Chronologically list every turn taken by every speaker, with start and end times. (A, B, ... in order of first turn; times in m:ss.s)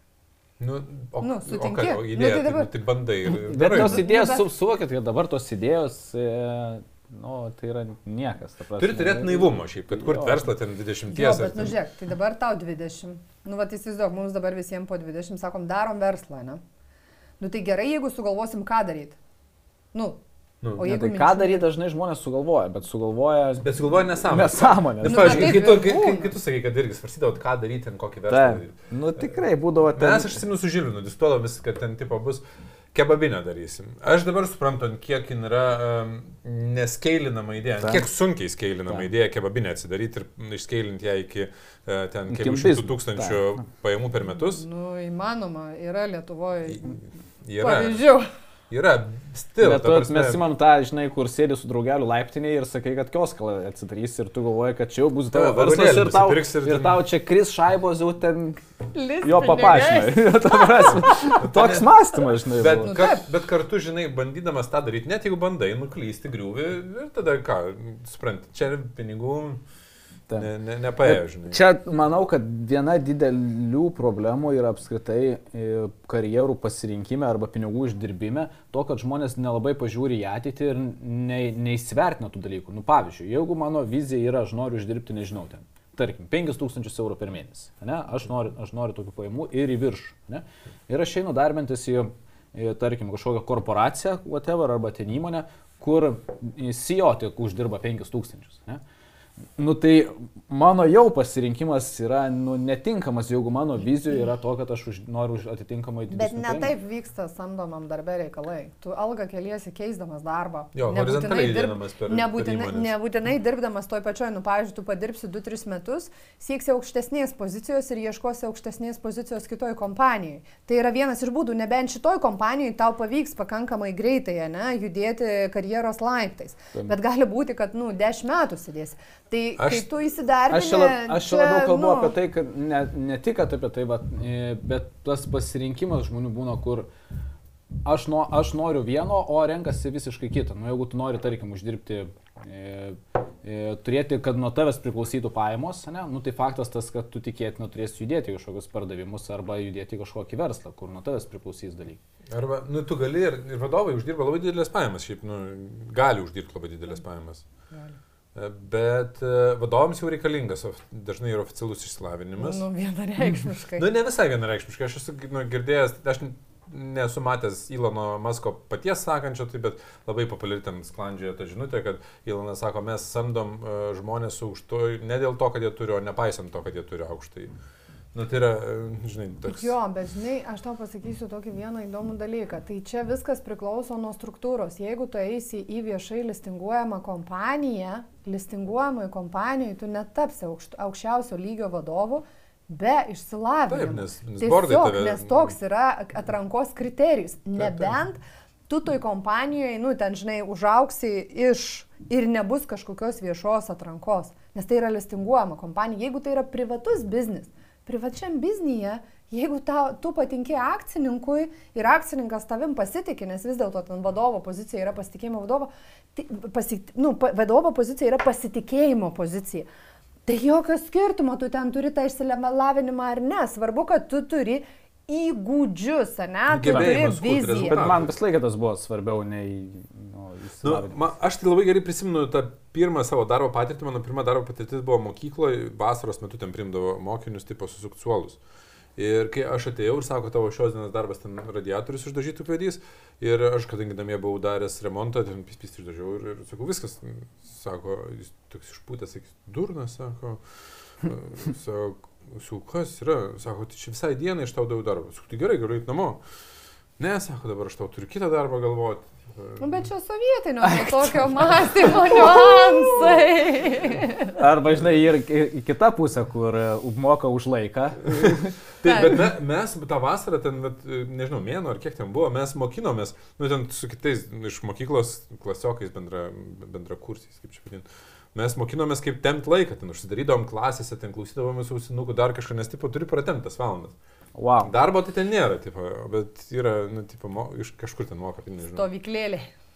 0:00.6-0:04.1 A
0:01.2-0:02.7 B
0:03.3-0:10.5 C
0:03.7-0:04.4 B
0:08.8-0:11.8 A
0:11.1-0:16.6 B
0:17.4-0:19.2 B
0:19.9-0:20.2 B
0:20.8-0:21.6 B
0:20.8-0:23.7 C
0:23.6-0:29.4 A
0:24.3-0:25.7 C
0:25.0-0:26.3 B
0:28.3-0:30.4 C
0:30.0-0:32.4 A
0:32.9-0:44.6 A
0:42.3-0:43.6 C
0:44.4-0:47.0 B
0:46.7-0:48.0 A
0:47.6-0:48.3 B
0:48.7-0:50.4 A
0:49.6-0:58.6 C
0:55.3-0:57.0 A
0:58.9-1:01.4 B
0:59.2-1:03.0 C
1:01.4-1:01.9 A
1:02.5-1:09.6 A
1:02.8-1:03.2 B
1:10.3-1:38.8 C
1:10.4-1:11.6 A
1:39.6-1:46.7 C
1:46.1-2:12.1 B
1:50.8-1:52.9 A
2:09.6-2:09.9 A
2:10.5-2:16.9 C
2:17.8-2:32.0 C
2:32.3-2:37.4 A
2:37.7-2:38.0 B
2:38.4-2:42.6 A
2:42.4-2:43.9 B
2:43.8-2:57.5 A
2:58.1-2:59.7 A
2:59.5-3:39.7 B
3:13.7-3:15.5 A
3:17.6-3:17.9 A
3:40.3-3:47.8 B
3:46.5-3:48.1 A
3:46.6-3:47.0 C
3:47.6-3:51.0 C
3:50.6-3:58.4 A
3:59.0-4:10.4 A
4:11.0-4:16.2 A
4:17.0-4:19.9 A
4:19.6-4:24.4 B
4:20.6-4:22.7 C
4:24.4-4:28.5 C
4:28.1-4:44.0 A
4:28.8-4:29.2 B
4:44.4-4:44.7 C
4:44.6-4:48.9 A
4:48.7-4:49.5 B